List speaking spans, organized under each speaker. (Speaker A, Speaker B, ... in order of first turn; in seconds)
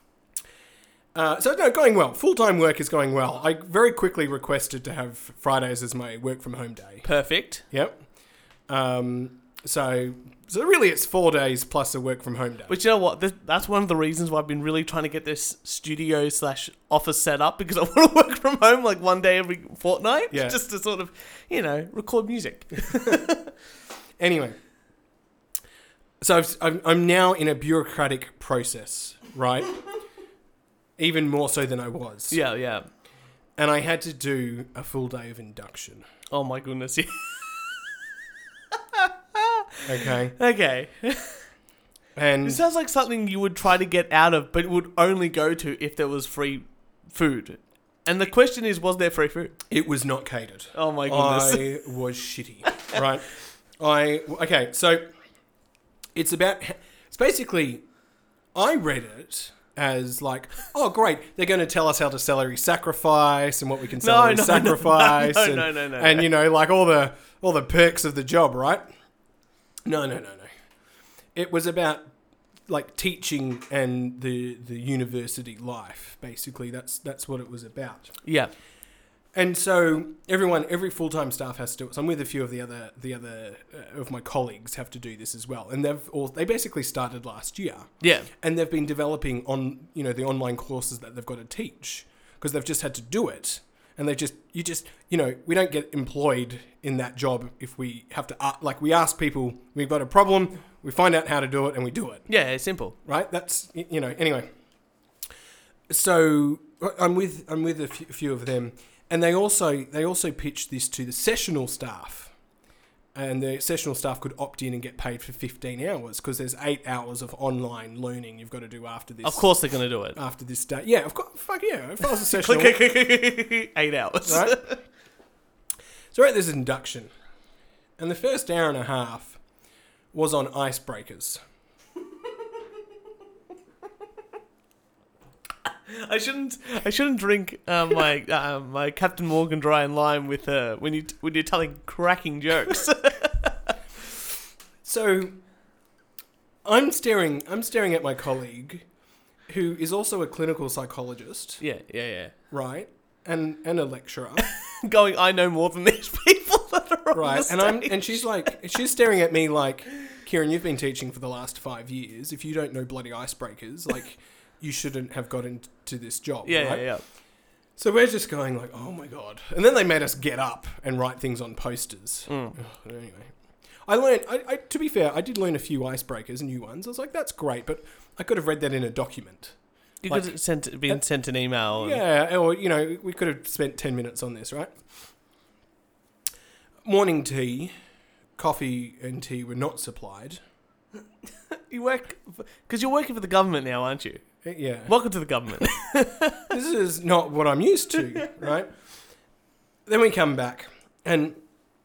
Speaker A: 1.1-7.0, 7.7-8.0, 8.7-12.7, 20.3-20.6, 22.9-23.3, 24.2-24.6, 26.2-29.8, 31.0-32.4, 33.6-36.0, 39.8-40.4, 42.1-42.6, 49.7-55.0, 56.1-57.8, 58.5-68.8, 69.8-70.5, 71.3-72.1, 72.7-78.1, 79.3-102.2, 103.0-104.5, 105.9-112.3, 113.1-119.5, 120.2-122.8, 124.2-124.6, 126.1-127.1, 128.0-129.4, 130.1-131.4, 144.8-145.4, 146.6-148.8, 149.5-151.6, 152.5-154.5, 157.1-166.8, 167.8-173.3, 173.8-179.6, 181.8-184.8, 186.8-187.7, 188.4-190.4, 194.4-194.9, 196.5-198.7, 199.8-201.4
Speaker B: 7.0-7.6, 12.7-23.5, 32.3-32.9, 36.3-37.9, 38.7-41.4, 42.4-49.6, 50.7-51.6, 64.0-66.3, 78.2-78.5, 88.0-88.3, 102.3-103.0, 119.2-120.2, 122.0-124.8, 135.9-143.7, 151.6-152.3, 154.4-158.5, 166.4-167.0, 172.3-172.6, 180.0-182.0, 191.5-194.2, 194.9-196.5